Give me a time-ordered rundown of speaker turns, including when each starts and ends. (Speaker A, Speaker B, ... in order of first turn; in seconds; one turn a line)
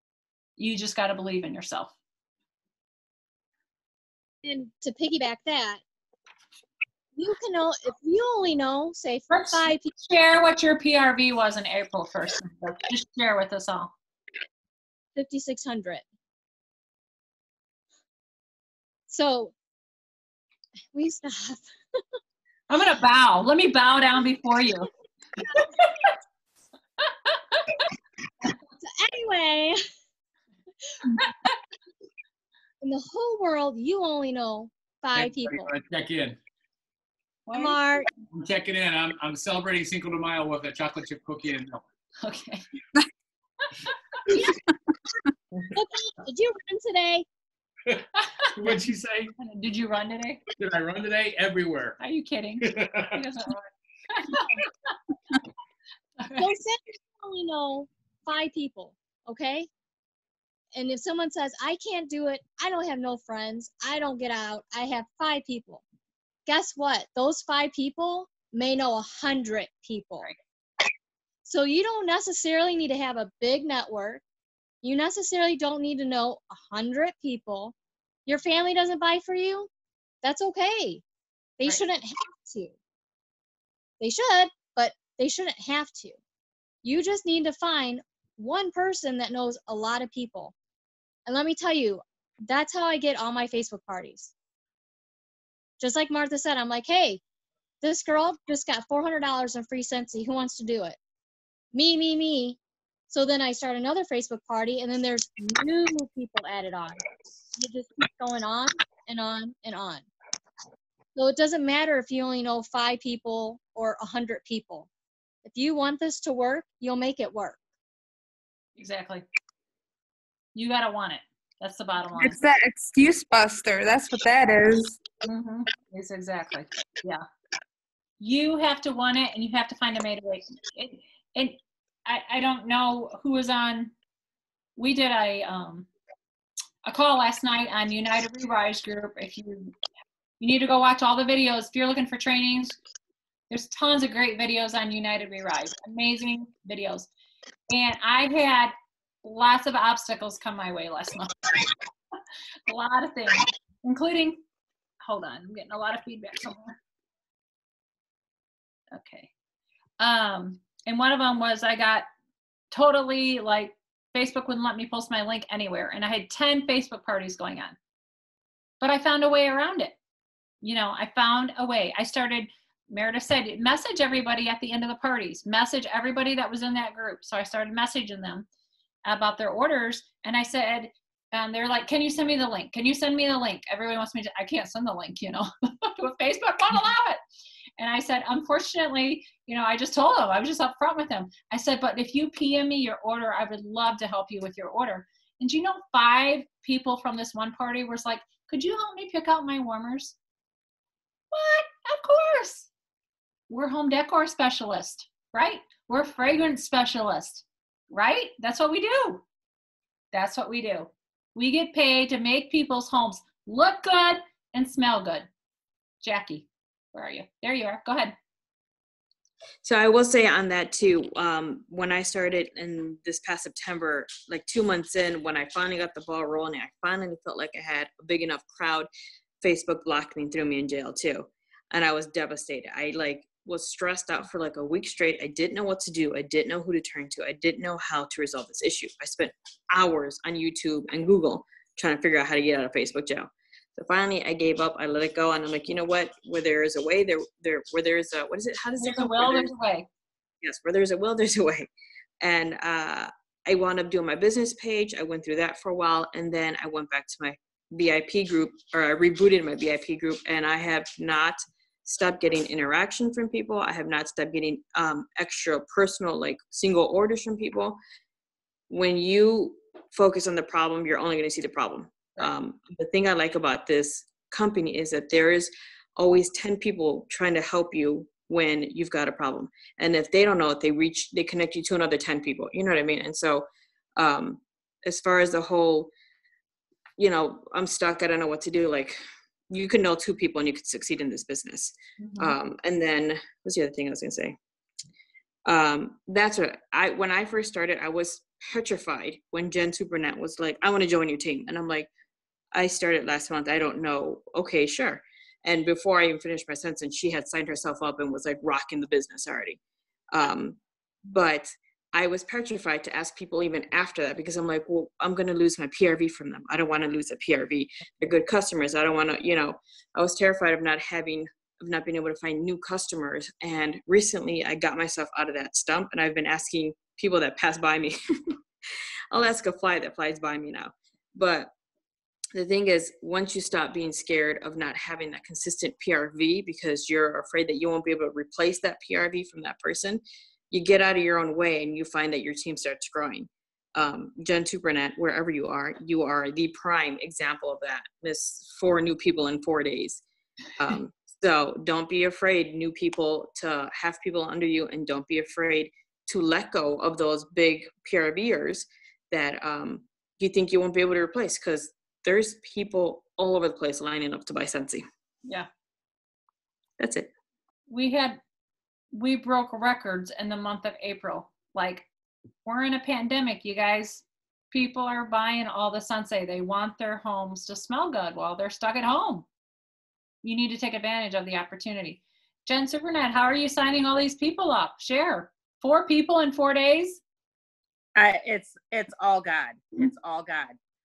Speaker A: 0.6-1.9
Speaker B: 4.4-5.8
Speaker B: 7.2-9.9
Speaker A: 9.3-13.9
Speaker B: 15.1-16.0
Speaker B: 19.1-19.5
Speaker B: 20.9-21.7
Speaker A: 22.7-24.9
Speaker B: 25.5-25.9
Speaker A: 25.6-26.1
Speaker A: 27.1-27.8
Speaker B: 28.8-29.8
Speaker B: 32.8-35.7
Speaker C: 35.1-36.4
Speaker A: 37.5-37.8
Speaker B: 37.5-38.1
Speaker C: 38.3-41.8
Speaker A: 42.2-42.6
Speaker B: 44.3-44.5
Speaker B: 45.7-47.2
Speaker C: 48.6-49.3
Speaker A: 49.4-50.4
Speaker C: 50.6-52.0
Speaker A: 52.0-54.5
Speaker C: 52.6-53.2
Speaker B: 56.4-59.7
Speaker B: 60.7-65.8
Speaker B: 66.5-70.3
Speaker B: 71.4-74.2
Speaker B: 74.8-77.7
Speaker B: 78.3-79.7
Speaker B: 80.2-81.0
Speaker B: 81.6-82.7
Speaker B: 84.0-86.2
Speaker B: 86.8-90.5
Speaker B: 91.2-94.3
Speaker B: 95.8-97.2
Speaker B: 97.8-101.0
Speaker B: 101.7-102.6
Speaker B: 103.1-107.0
Speaker B: 107.5-110.1
Speaker B: 111.2-114.9
Speaker B: 115.4-117.6
Speaker A: 118.8-119.2
Speaker A: 120.5-122.4
Speaker D: 122.2-125.0
Speaker A: 125.2-127.2
Speaker A: 128.2-133.9
Speaker A: 134.8-135.9
Speaker A: 136.8-139.7
Speaker A: 140.4-142.8
Speaker A: 143.5-147.1
Speaker A: 147.7-151.4
Speaker A: 152.7-154.4
Speaker A: 155.0-156.8
Speaker A: 158.9-159.3
Speaker A: 160.0-162.1
Speaker A: 162.7-167.8
Speaker A: 168.8-170.0
Speaker A: 170.6-178.5
Speaker A: 179.0-187.2
Speaker A: 187.8-200.1
Speaker A: 201.3-202.7
Speaker A: 203.5-209.2
Speaker A: 210.1-215.3
Speaker A: 216.0-218.1
Speaker E: 219.6-228.9
Speaker E: 229.4-249.5
Speaker A: 248.8-249.9
Speaker E: 250.4-251.7
Speaker E: 252.2-267.8
Speaker E: 268.7-285.9
Speaker E: 287.0-294.3
Speaker A: 292.0-292.4
Speaker E: 295.4-301.9
Speaker E: 302.5-309.6
Speaker E: 310.1-327.9
Speaker E: 329.1-331.5
Speaker E: 332.3-350.0
Speaker E: 350.6-364.8
Speaker E: 366.8-367.1
Speaker A: 367.7-368.2
Speaker A: 368.9-371.9
Speaker A: 372.4-379.2
Speaker A: 380.2-387.0
Speaker F: 387.9-390.6